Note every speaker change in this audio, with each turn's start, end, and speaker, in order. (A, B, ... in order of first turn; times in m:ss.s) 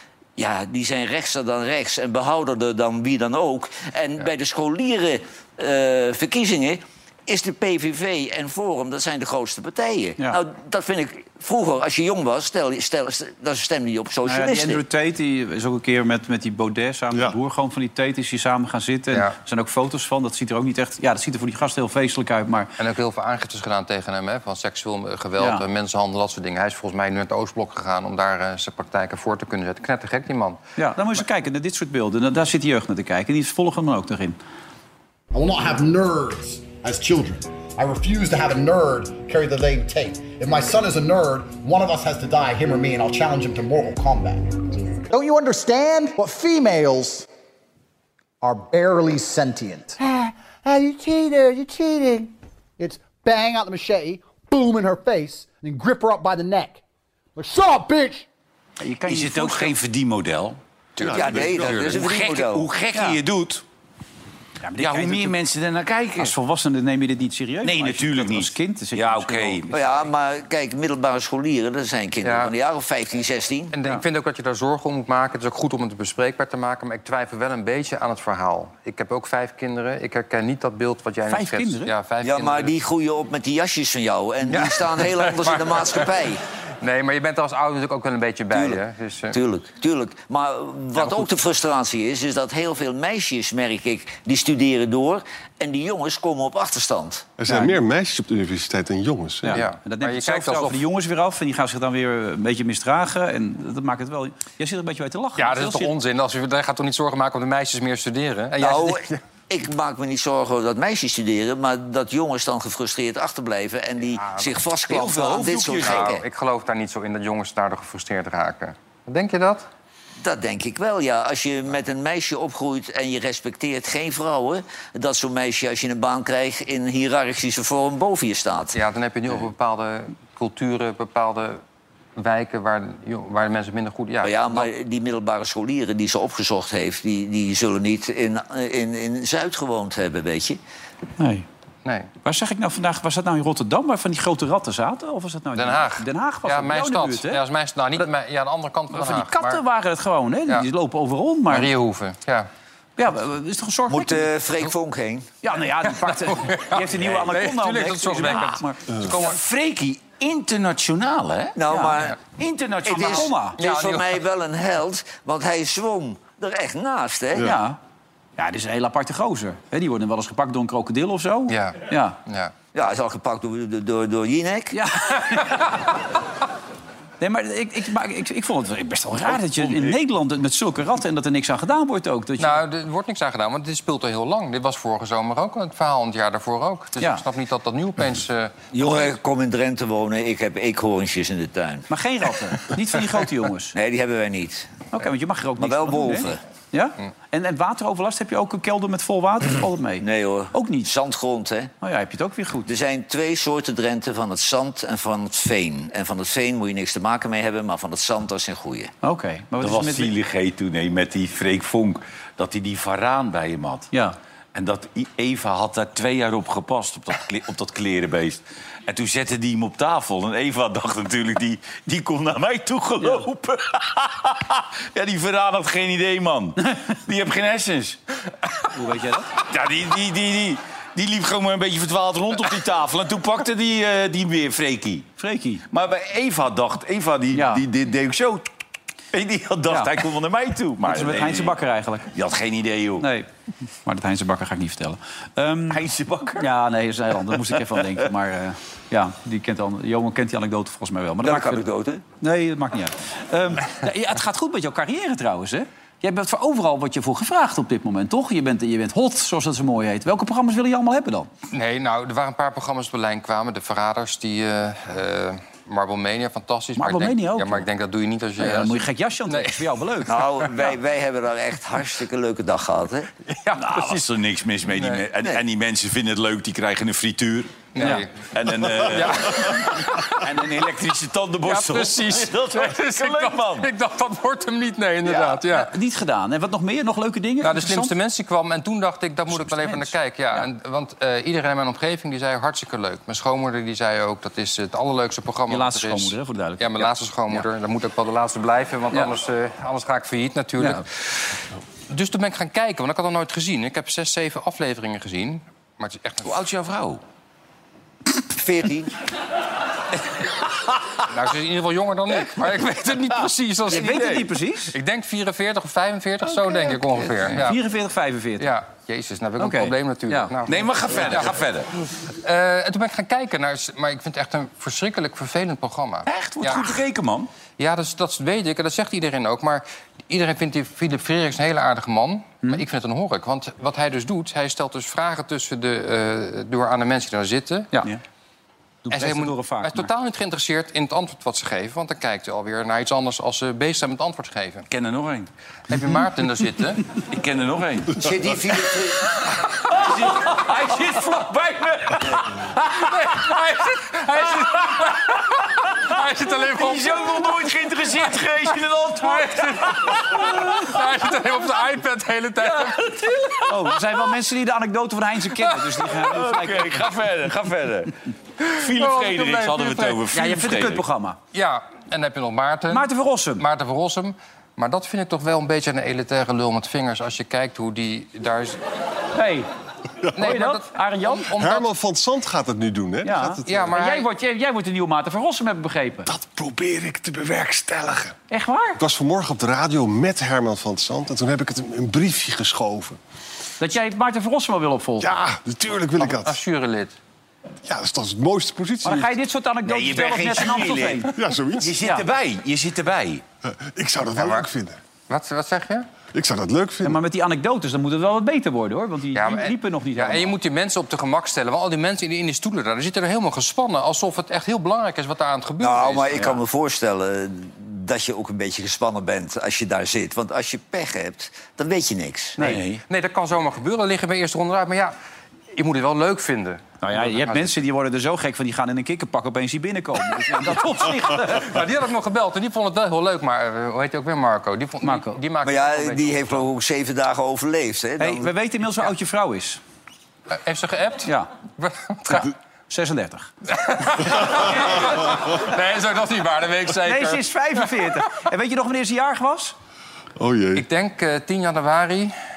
0:00.4-0:14.8 A
0:14.2-0:22.7 B
0:22.8-0:30.6 C
0:25.4-0:25.6 B
0:30.8-0:34.4 B
0:35.3-0:47.3 D
0:48.4-0:56.8 D
0:57.4-0:58.3 D
0:58.8-0:59.7 B
0:59.1-1:03.6 E
1:01.0-1:02.0 F
1:01.0-1:02.7 A
1:02.9-1:03.2 B
1:04.6-1:05.4 B
1:04.8-1:06.3 E
1:06.2-1:09.8 B
1:07.6-1:09.7 E
1:09.7-1:13.7 A
1:12.2-1:12.5 C
1:13.7-1:22.8 C
1:21.3-1:21.9 B
1:22.2-1:26.4 A
1:24.5-1:26.1 C
1:26.8-1:29.4 C
1:28.5-1:28.8 A
1:29.3-1:37.3 A
1:37.4-1:39.6 F
1:39.4-1:45.9 B
1:39.5-1:40.8 C
1:45.4-1:49.2 C
1:48.6-1:56.2 A
1:54.2-1:54.5 C
1:54.9-1:56.1 E
1:55.7-1:59.7 C
2:00.2-2:08.8 A
2:08.7-2:11.6 C
2:12.2-2:14.7 C
2:14.2-2:20.6 A
2:21.2-2:21.5 B
2:21.8-2:22.1 C
2:22.2-2:27.4 B
2:25.6-2:29.6 C
2:28.9-2:31.7 B
2:31.5-2:32.5 C
2:33.0-2:34.3 B
2:33.9-2:35.3 A
2:35.4-2:38.8 B
2:35.8-2:39.4 C
2:39.1-2:41.6 E
2:41.6-2:42.2 A
2:41.7-2:42.0 B
2:42.4-2:43.3 E
2:42.8-2:47.6 A
2:42.9-2:43.6 B
2:43.6-2:44.1 C
2:47.4-2:47.8 B
2:48.4-2:52.2 B
2:51.5-2:52.5 C
2:52.7-2:54.8 A
2:54.7-2:55.9 B
2:57.2-3:02.6 B
2:59.7-2:59.9 E
3:02.4-3:08.5 C
3:07.0-3:07.2 B
3:08.7-3:11.9 A
3:11.9-3:13.7 B
3:13.7-3:14.9 A
3:14.9-3:20.9 B
3:15.6-3:16.4 A
3:20.0-3:21.7 A
3:21.8-3:22.7 B
3:22.7-3:28.9 A
3:29.0-3:30.1 B
3:29.6-3:33.9 E
3:34.5-3:48.0 E
3:43.0-3:43.3 B
3:48.7-3:49.3 B
3:49.4-3:55.1 E
3:55.2-3:55.6 B
3:55.7-3:58.4 E
3:57.3-3:57.6 B
3:59.1-4:01.6 E
3:59.7-3:59.9 B
4:00.9-4:02.1 B
4:02.1-4:03.1 E
4:03.0-4:03.3 B
4:03.8-4:05.8 B
4:05.7-4:06.5 E
4:06.4-4:11.6 B
4:11.2-4:12.0 A
4:12.2-4:21.3 B
4:21.5-4:29.6 C
4:26.8-4:27.7 B
4:28.4-4:30.2 B
4:30.1-4:33.1 A
4:33.3-4:34.0 C
4:33.6-4:43.7 E
4:34.8-4:35.0 C
4:37.8-4:38.1 C
4:37.8-4:38.1 B
4:38.8-4:40.2 C
4:41.5-4:45.7 C
4:45.4-4:47.9 B
4:47.4-5:00.9 C
4:49.3-4:50.4 B
4:55.5-4:57.5 B
5:01.9-5:06.3 C
5:06.2-5:07.0 E
5:08.3-5:08.9 A
5:11.1-5:17.6 C
5:13.7-5:14.7 B
5:17.2-5:18.5 B
5:18.4-5:21.3 C
5:19.4-5:20.3 B
5:20.5-5:21.7 E
5:22.1-5:26.8 C
5:26.1-5:27.3 E
5:27.6-5:37.9 C
5:37.7-5:38.0 B
5:38.8-5:39.9 B
5:38.9-5:44.7 C
5:44.7-5:45.3 E
5:45.7-5:46.8 C
5:47.0-5:48.1 E
5:48.0-5:49.1 A
5:49.6-5:52.6 E
5:52.8-5:57.1 C
5:56.6-5:59.6 E
5:59.0-6:03.0 C
6:03.4-6:06.8 B
6:05.9-6:08.0 E
6:08.5-6:10.8 E
6:08.5-6:10.0 C
6:10.1-6:11.2 B
6:11.3-6:18.6 C
6:12.7-6:13.4 B
6:19.2-6:19.5 B
6:20.2-6:21.6 C
6:20.2-6:21.3 B
6:21.3-6:23.7 F
6:23.0-6:26.1 B
6:23.5-6:24.1 C
6:26.1-6:28.2 F
6:28.3-6:28.8 B
6:28.8-6:33.0 F
6:33.6-6:35.1 B
6:35.0-6:36.4 F
6:36.0-6:37.0 C
6:37.6-6:39.2 F
6:38.8-6:41.1 B
6:39.7-6:43.2 E
6:41.2-6:41.8 F
6:43.4-6:44.8 F
6:44.2-6:44.4 C
6:45.1-6:45.9 C
6:46.1-6:47.0 F
6:46.8-6:50.4 B
6:49.1-6:56.2 C
6:55.6-7:02.4 A
7:02.4-7:02.8 E
7:02.9-7:04.9 C
7:05.6-7:07.5 C
7:06.8-7:11.5 B
7:11.3-7:16.4 C
7:14.8-7:15.2 B
7:15.4-7:18.3 A
7:18.0-7:19.6 B
7:20.3-7:22.3 C
7:22.1-7:23.3 B
7:23.5-7:28.1 C
7:24.3-7:24.8 B
7:26.8-7:29.6 B
7:30.2-7:30.6 F
7:30.6-7:32.2 C